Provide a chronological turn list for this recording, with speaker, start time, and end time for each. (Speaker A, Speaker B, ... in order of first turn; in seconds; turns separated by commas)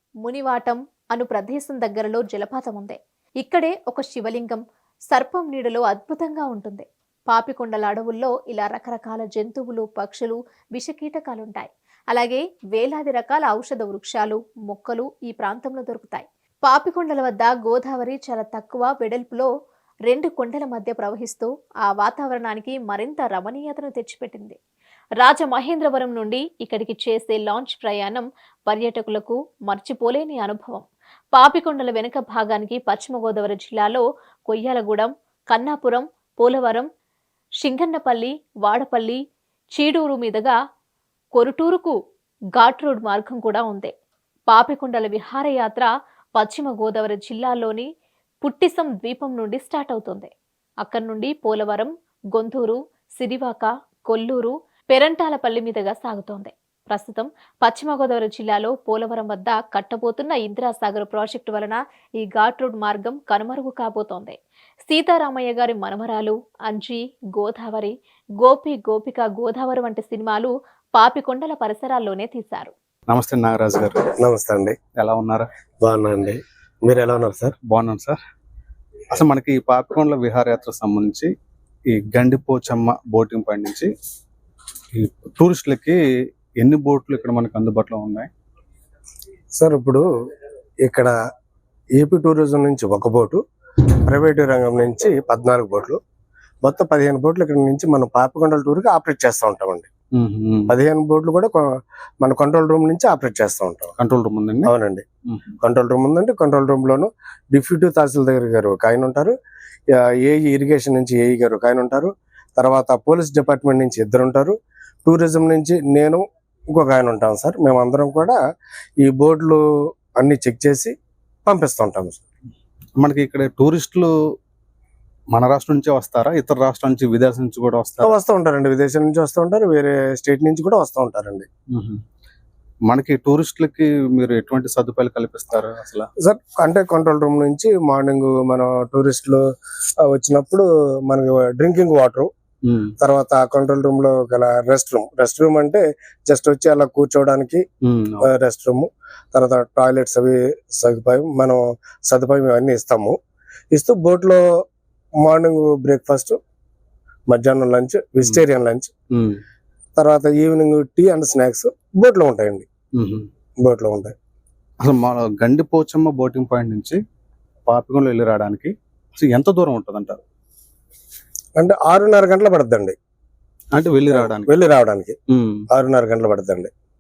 Speaker A: 0.2-19.5, Speaker A: 20.1-24.6, Speaker A: 25.2-36.9, Speaker A: 37.6-39.2, Speaker A: 39.8-40.5, Speaker A: 41.4-42.0, Speaker A: 42.6-43.9, Speaker A: 44.5-47.9, Speaker A: 48.4-50.3, Speaker A: 50.8-72.7, Speaker B: 73.1-74.0, Speaker C: 74.2-74.8, Speaker B: 75.0-75.5, Speaker C: 75.8-77.5, Speaker B: 77.7-78.2, Speaker B: 79.1-81.3, Speaker B: 81.9-83.9, Speaker B: 85.0-86.0, Speaker B: 86.6-88.3, Speaker C: 89.6-90.0, Speaker C: 90.8-91.1, Speaker C: 92.0-93.4, Speaker C: 94.1-96.0, Speaker C: 96.6-99.9, Speaker B: 100.2-100.8, Speaker C: 100.7-101.7, Speaker C: 102.2-104.0, Speaker B: 104.0-104.7, Speaker C: 104.7-105.0, Speaker C: 105.6-109.3, Speaker C: 110.0-118.4, Speaker C: 119.0-119.6, Speaker C: 120.2-120.9, Speaker C: 121.5-122.2, Speaker B: 123.0-124.1, Speaker B: 125.3-128.2, Speaker C: 128.0-131.5, Speaker B: 131.7-132.0, Speaker B: 132.9-136.1, Speaker C: 136.2-139.4, Speaker C: 140.1-142.3, Speaker B: 142.7-142.9, Speaker C: 143.0-147.6, Speaker B: 147.8-148.3, Speaker C: 148.2-153.2, Speaker C: 153.7-154.4, Speaker C: 155.2-156.4, Speaker C: 157.3-158.9, Speaker B: 159.1-159.4, Speaker C: 160.0-162.7, Speaker B: 163.0-163.2, Speaker C: 163.6-164.1, Speaker B: 164.8-167.0, Speaker B: 167.7-170.2, Speaker C: 171.6-172.9, Speaker B: 173.8-174.6, Speaker C: 174.1-175.2, Speaker B: 175.3-175.6, Speaker C: 175.7-176.7